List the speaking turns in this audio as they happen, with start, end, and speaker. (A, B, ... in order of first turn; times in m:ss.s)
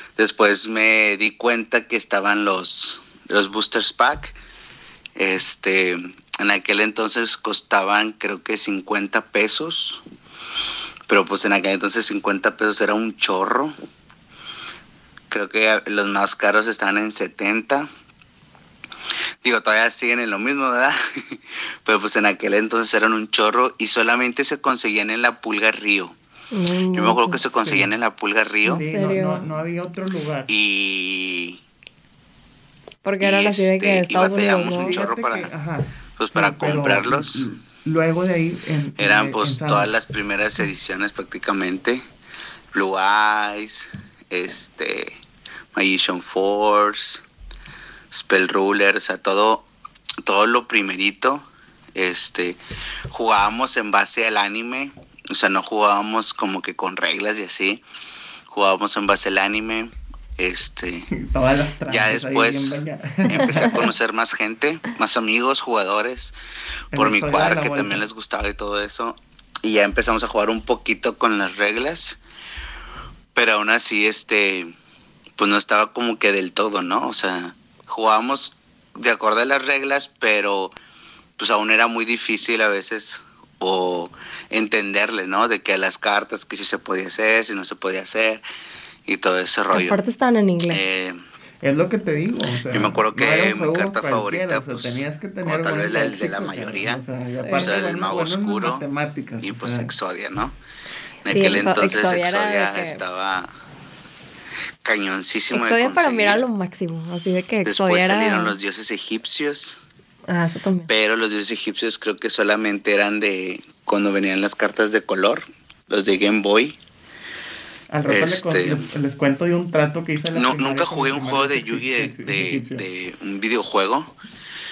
0:00.2-0:04.4 A
0:05.2-0:10.0 A
0:11.1-0:13.7 A
0:15.3-0:17.9 A
0:19.4-0:26.2 A
0:26.5-0:27.4 B
0:26.9-0:28.8 A
0:27.6-0:27.9 C
0:28.7-0:29.5 B
0:28.7-0:30.5 C
0:30.5-0:31.6 A
0:33.0-0:34.9 B
0:33.2-0:35.5 A
0:34.6-0:39.9 C
0:36.2-0:37.5 A
0:39.0-0:42.0 A
0:42.7-0:45.1 A
0:45.7-0:47.2 A
0:48.1-0:49.7 A
0:50.2-0:51.4 A
0:52.0-0:52.6 A
0:53.1-0:57.8 A
0:58.5-1:01.1 A
1:01.1-1:03.9 C
1:01.9-1:02.8 A
1:03.3-1:06.3 A
1:06.9-1:08.0 C
1:06.9-1:12.2 A
1:13.4-1:14.7 A
1:15.4-1:20.7 A
1:21.4-1:28.4 A
1:29.1-1:30.0 A
1:29.7-1:30.9 B
1:30.7-1:31.2 A
1:31.6-1:39.9 C
1:32.7-1:37.0 A
1:37.4-1:37.7 B
1:37.5-1:38.8 A
1:39.4-1:40.5 A
1:41.2-1:43.5 A
1:41.3-1:43.0 B
1:44.8-1:46.4 A
1:45.5-1:48.5 B
1:47.6-1:49.8 A
1:50.3-1:50.9 B
1:50.9-1:56.8 A
1:57.9-2:02.8 C
1:58.1-1:58.8 A
2:00.3-2:04.1 A